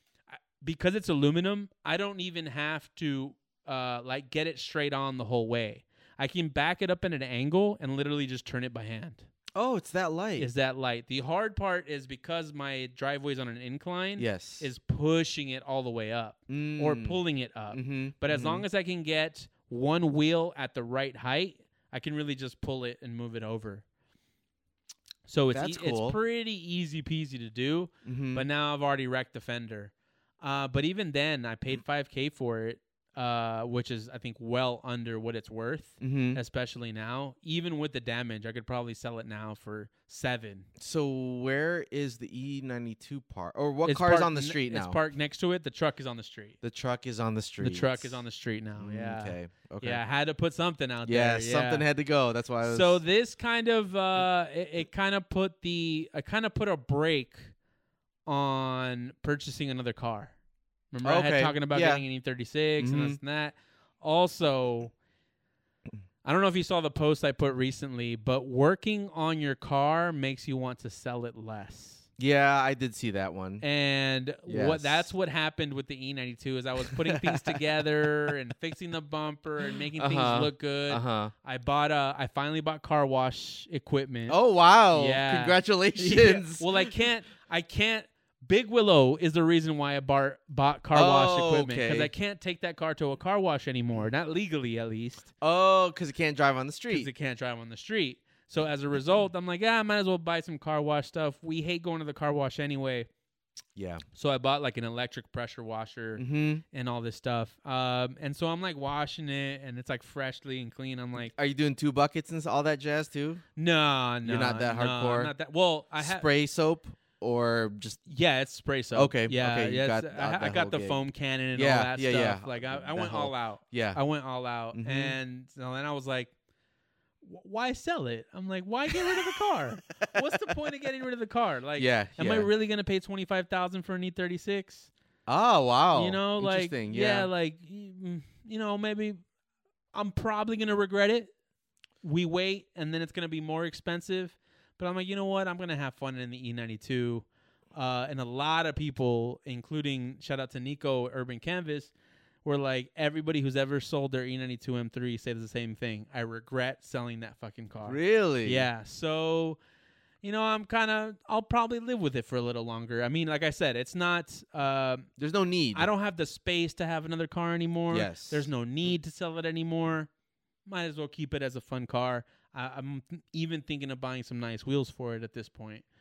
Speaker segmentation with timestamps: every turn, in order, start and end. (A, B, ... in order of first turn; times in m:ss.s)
0:00.3-0:09.3 A
0:09.5-0:10.5 B
0:10.4-0:23.8 A
0:14.2-0:14.6 B
0:16.5-0:17.2 B
0:17.7-0:18.6 B
0:25.2-0:40.7 A
0:25.5-0:26.2 B
0:28.0-0:28.4 B
0:36.0-0:36.4 B
0:40.8-0:45.0 B
0:43.8-0:46.6 A
0:46.6-0:48.2 B
0:47.6-0:51.8 A
0:48.8-0:50.0 B
0:51.0-0:53.0 B
0:52.6-0:57.5 A
0:58.2-1:00.3 A
1:00.9-1:04.9 A
1:01.0-1:02.0 B
1:02.8-1:03.2 B
1:06.2-1:12.0 A
1:12.2-1:13.6 B
1:13.6-1:24.4 A
1:14.5-1:15.1 B
1:16.8-1:17.6 B
1:19.9-1:21.3 B
1:24.3-1:26.9 B
1:24.9-1:35.3 A
1:30.9-1:32.1 B
1:35.4-1:37.1 B
1:36.9-1:43.1 A
1:43.7-1:44.0 B
1:44.1-1:51.3 A
1:46.2-1:46.6 B
1:51.3-1:53.4 B
1:53.6-1:56.2 A
1:54.2-1:55.3 B
1:56.0-1:58.0 B
1:58.1-2:06.3 A
1:58.9-2:01.0 B
2:01.5-2:04.0 B
2:04.7-2:05.2 B
2:07.2-2:14.9 A
2:08.9-2:09.4 B
2:11.8-2:12.5 B
2:15.3-2:17.3 B
2:15.9-2:19.2 A
2:19.9-2:21.3 A
2:22.0-2:31.9 A
2:32.4-2:39.6 A
2:37.8-2:38.7 B
2:40.2-2:45.1 A
2:45.2-2:45.9 B
2:45.7-2:50.1 A
2:47.9-2:48.4 B
2:50.6-2:55.8 A